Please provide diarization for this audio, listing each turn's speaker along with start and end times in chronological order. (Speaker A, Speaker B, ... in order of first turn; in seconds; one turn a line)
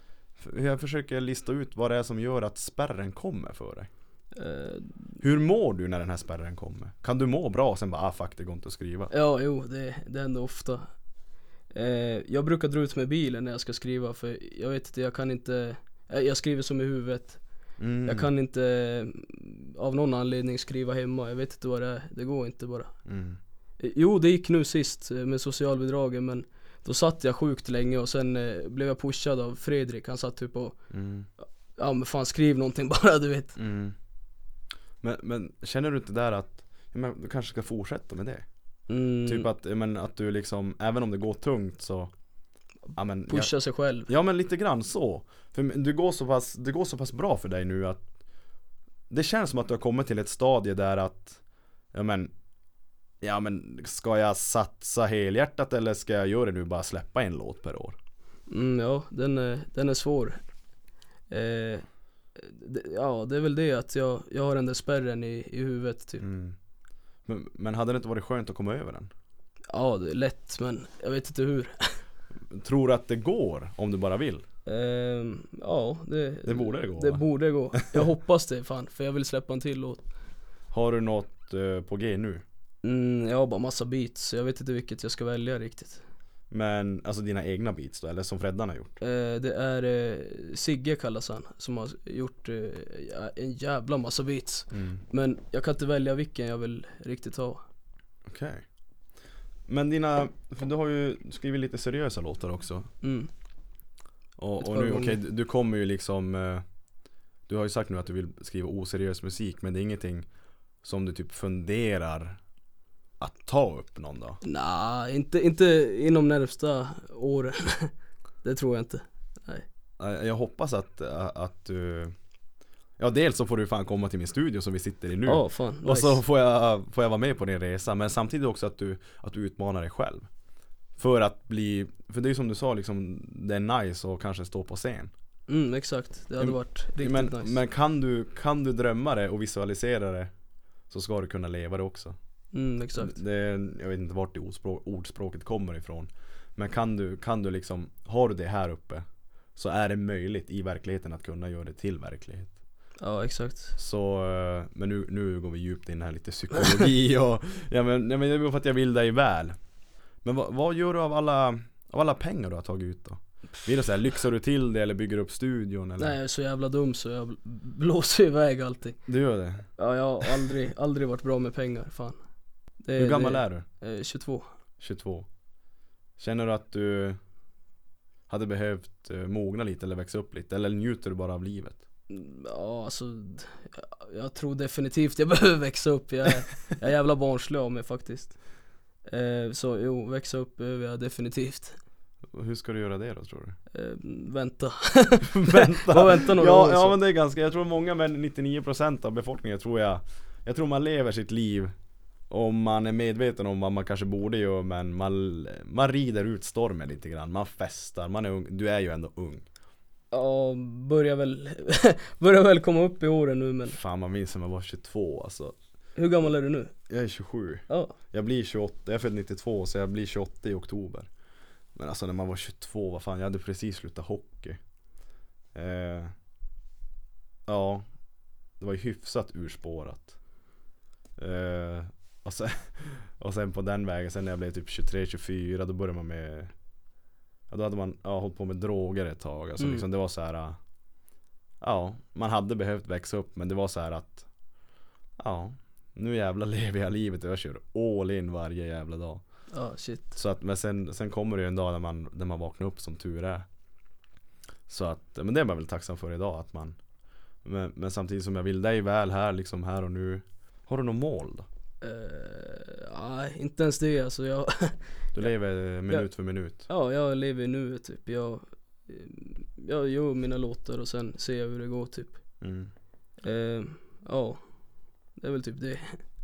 Speaker A: 0.4-3.9
Speaker B: 4.3-5.0
Speaker A: 5.2-9.1
Speaker B: 9.1-10.9
Speaker B: 11.7-17.4
Speaker A: 17.8-18.3
Speaker B: 18.0-22.9
Speaker A: 23.1-23.4
Speaker B: 23.8-30.8
Speaker A: 30.9-31.3
Speaker B: 31.8-33.5
Speaker A: 33.6-33.9
Speaker A: 35.0-38.5
Speaker B: 38.9-39.5
Speaker A: 39.2-42.1
Speaker A: 43.0-43.5
Speaker B: 43.3-44.1
Speaker A: 44.1-48.0
Speaker A: 49.1-51.4
Speaker A: 51.9-52.3
Speaker A: 53.2-58.0
Speaker B: 58.5-60.4
Speaker B: 61.3-61.8
Speaker B: 62.4-66.2
Speaker A: 66.2-66.5
Speaker A: 67.2-69.1
Speaker B: 69.7-72.0
Speaker A: 72.5-74.4
Speaker B: 74.7-80.0
Speaker A: 76.5-78.0
Speaker A: 80.7-82.4
Speaker B: 82.8-86.0
Speaker A: 86.5-89.0
Speaker B: 89.0-97.6
Speaker A: 94.7-95.0
Speaker A: 98.2-98.6
Speaker A: 99.7-102.9
Speaker B: 103.0-103.3
Speaker A: 104.4-106.6
Speaker B: 104.6-105.2
Speaker A: 107.5-110.3
Speaker A: 110.8-112.4
Speaker A: 113.2-114.4
Speaker B: 114.4-117.9
Speaker B: 118.4-119.7
Speaker A: 120.0-122.1
Speaker A: 123.0-130.3
Speaker B: 125.2-126.2
Speaker A: 131.0-135.1
Speaker B: 135.5-137.6
Speaker A: 136.4-140.3
Speaker A: 140.9-142.2
Speaker B: 142.5-143.2
Speaker A: 142.9-149.0
Speaker A: 149.6-152.5
Speaker B: 153.0-153.7
Speaker A: 153.8-159.6
Speaker A: 160.2-166.2
Speaker B: 166.0-169.0
Speaker A: 169.1-169.7
Speaker B: 169.8-172.2
Speaker B: 172.8-174.5
Speaker A: 173.0-173.6
Speaker A: 174.8-175.3
Speaker A: 176.2-177.2
Speaker A: 178.3-181.8
Speaker B: 182.1-188.3
Speaker B: 189.1-191.8
Speaker A: 192.3-193.6
Speaker B: 193.7-196.9
Speaker A: 195.2-201.7
Speaker A: 202.3-209.4
Speaker B: 210.1-213.8
Speaker A: 213.7-215.5
Speaker B: 215.9-216.7
Speaker A: 216.9-221.1
Speaker B: 217.7-217.9
Speaker A: 221.7-224.6
Speaker A: 225.5-226.1
Speaker A: 227.5-227.8
Speaker A: 228.6-230.2
Speaker A: 231.2-236.5
Speaker A: 237.5-240.6
Speaker B: 239.6-239.8
Speaker A: 241.6-244.3
Speaker A: 245.2-249.2
Speaker B: 249.5-250.2
Speaker A: 250.2-253.4
Speaker A: 254.7-256.8
Speaker A: 257.4-261.4
Speaker B: 261.8-264.8
Speaker A: 265.1-266.7
Speaker B: 266.7-272.2
Speaker A: 272.4-272.7
Speaker B: 273.2-274.4
Speaker B: 275.2-276.0